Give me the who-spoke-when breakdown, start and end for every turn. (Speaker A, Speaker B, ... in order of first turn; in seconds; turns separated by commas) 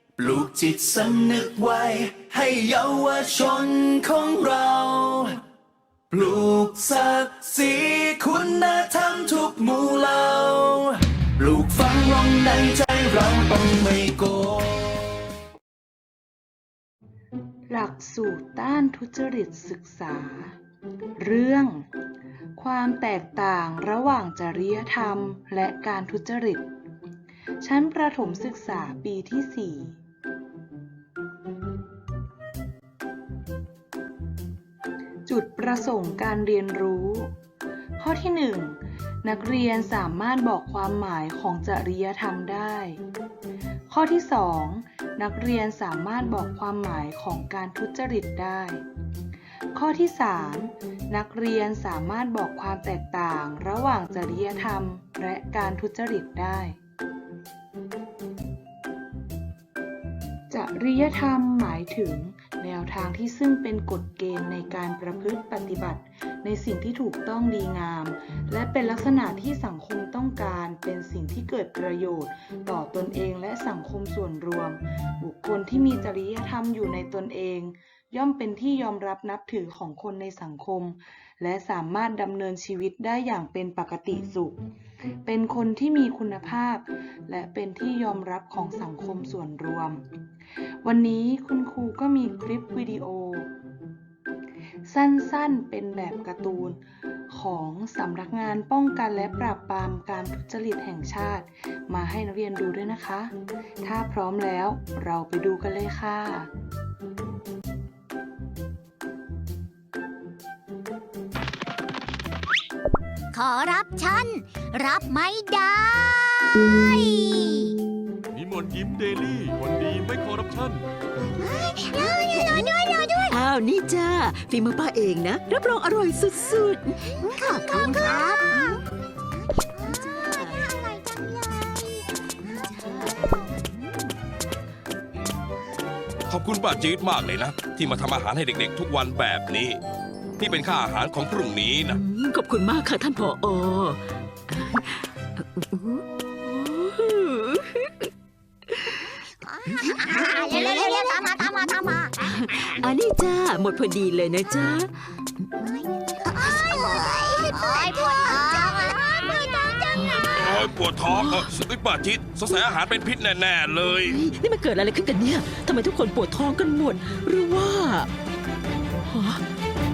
Speaker A: 0.2-5.3, Speaker A: 6.1-14.8, Speaker B: 17.7-20.6, Speaker B: 21.2-21.8, Speaker B: 22.6-26.7, Speaker B: 27.6-30.0, Speaker B: 35.3-37.3, Speaker B: 38.0-43.0, Speaker B: 43.9-48.8, Speaker B: 49.7-56.8, Speaker B: 60.5-84.6, Speaker B: 85.2-90.0, Speaker B: 90.8-93.5, Speaker B: 94.9-106.5, Speaker C: 113.3-117.8, Speaker D: 118.3-120.8, Speaker C: 121.5-123.4, Speaker E: 123.3-127.3, Speaker C: 127.2-128.8, Speaker C: 129.6-132.0, Speaker E: 129.9-130.6, Speaker E: 132.4-133.1, Speaker C: 132.6-133.5, Speaker F: 136.3-139.8, Speaker F: 140.4-142.0, Speaker E: 141.9-148.1, Speaker C: 149.9-152.2, Speaker E: 152.2-154.9, Speaker C: 156.3-160.3, Speaker E: 159.9-160.3, Speaker F: 160.3-164.2, Speaker E: 164.0-168.1, Speaker E: 169.1-169.4